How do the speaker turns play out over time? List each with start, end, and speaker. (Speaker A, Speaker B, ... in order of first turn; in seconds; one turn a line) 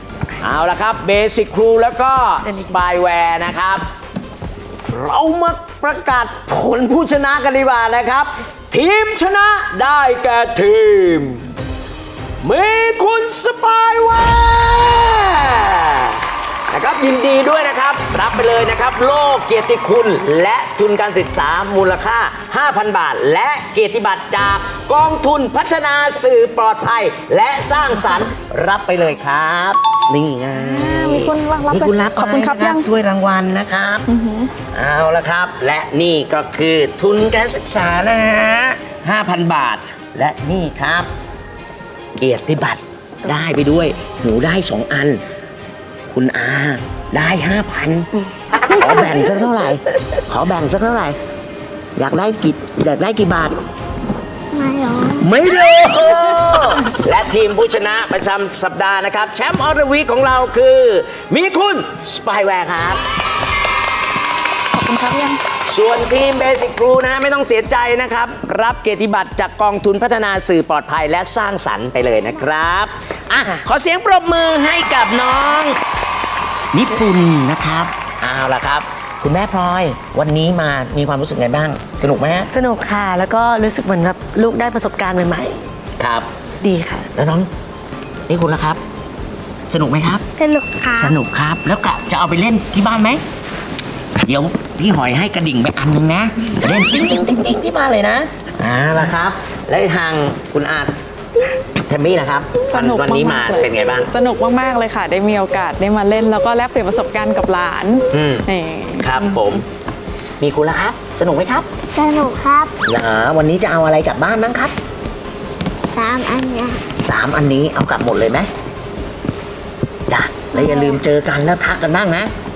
Speaker A: 0.4-3.9
Speaker B: 2.5-2.7
Speaker A: 4.9-11.5
Speaker A: 12.4-34.1
Speaker C: 30.5-32.9
Speaker C: 34.1-34.5
Speaker A: 34.7-41.1
Speaker A: 42.2-45.2
Speaker A: 46.1-48.1
Speaker A: 48.7-51.2
Speaker A: 52.0-53.6
Speaker D: 54.5-55.3
Speaker A: 55.2-63.0
Speaker C: 64.7-65.4
Speaker A: 65.7-75.8
Speaker A: 76.7-82.5
Speaker B: 82.5-85.6
Speaker A: 86.0-86.3
Speaker B: 86.6-87.1
Speaker A: 87.1-87.5
Speaker A: 88.3-88.8
Speaker A: 89.7-90.3
Speaker D: 90.4-91.1
Speaker A: 91.0-93.2
Speaker A: 94.2-101.0
Speaker A: 101.7-104.1
Speaker C: 102.7-109.5
Speaker A: 108.1-108.5
Speaker A: 109.0-109.6
Speaker A: 110.4-111.7
Speaker D: 111.9-112.7
Speaker A: 112.8-114.7
Speaker D: 115.9-116.8
Speaker A: 117.0-118.5
Speaker A: 120.1-122.3
Speaker D: 120.5-121.0